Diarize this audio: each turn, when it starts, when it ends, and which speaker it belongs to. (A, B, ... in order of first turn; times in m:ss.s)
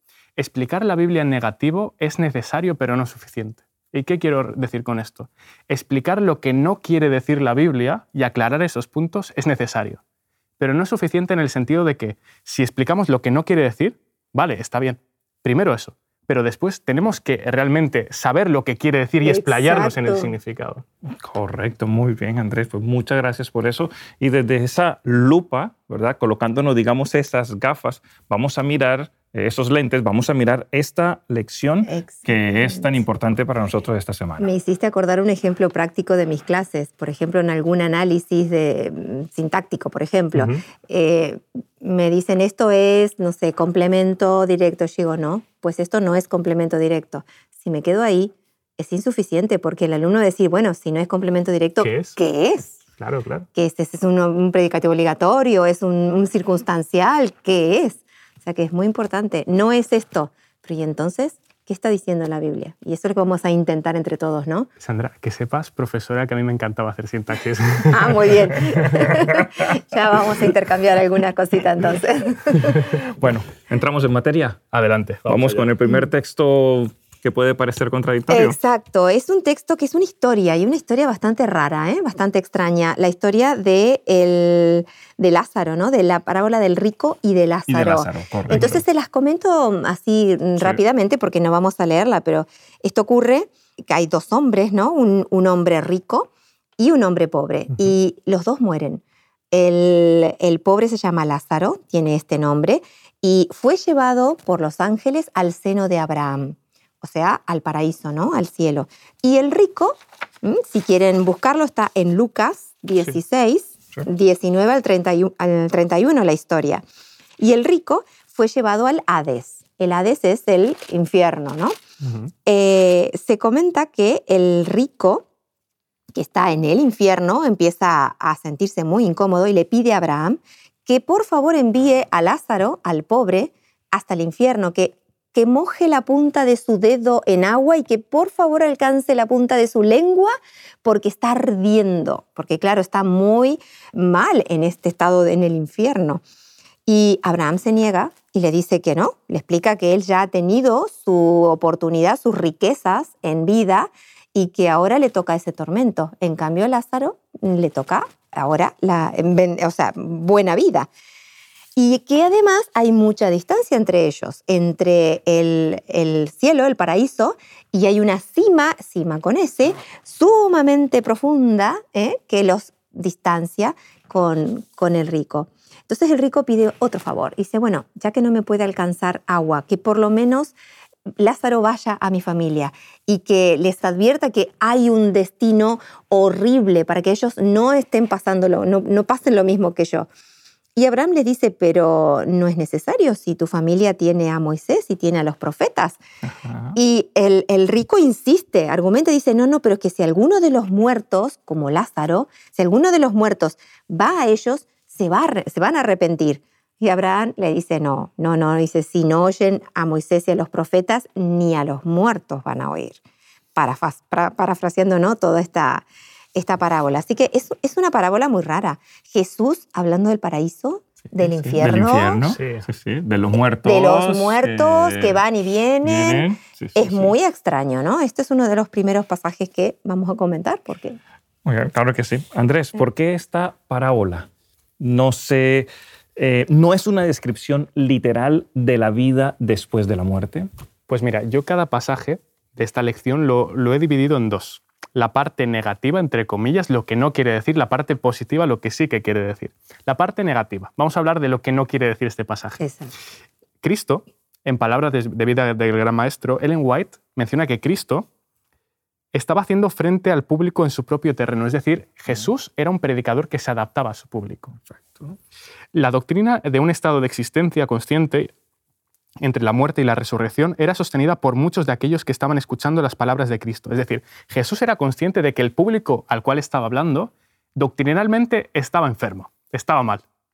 0:00.4-0:10.0 A
0:10.6-0:20.8 A
0:19.2-0:20.3 B
0:21.1-0:34.5 C
0:31.9-0:32.9 B
0:34.4-0:52.8 B
0:40.4-0:40.6 A
0:51.8-0:52.2 A
0:53.0-0:53.5 A
0:53.5-1:04.7 B
1:04.8-1:09.2 A
1:07.9-1:13.0 B
1:12.7-1:14.6 C
1:14.7-1:15.7 A
1:15.2-1:18.6 C
1:18.3-1:56.8 B
1:27.7-1:28.8 C
1:57.4-2:01.8 B
2:02.0-2:02.3 A
2:02.5-2:05.3 B
2:06.2-2:26.2 B
2:26.9-2:40.9 B
2:41.8-3:00.5 B
3:01.2-3:10.1 B
3:10.8-3:16.0 B
3:16.2-3:16.8 C
3:16.7-3:33.0 B
3:33.6-3:42.2 B
3:41.2-3:41.6 A
3:41.6-3:45.2 C
3:42.3-3:42.6 A
3:43.6-3:51.0 B
3:45.8-3:47.1 C
3:51.4-4:00.5 C
4:00.9-4:12.6 A
4:12.6-4:12.9 B
4:13.6-4:18.1 A
4:19.1-4:24.6 A
4:24.6-4:25.2 C
4:25.7-4:28.3 A
4:29.2-4:40.0 A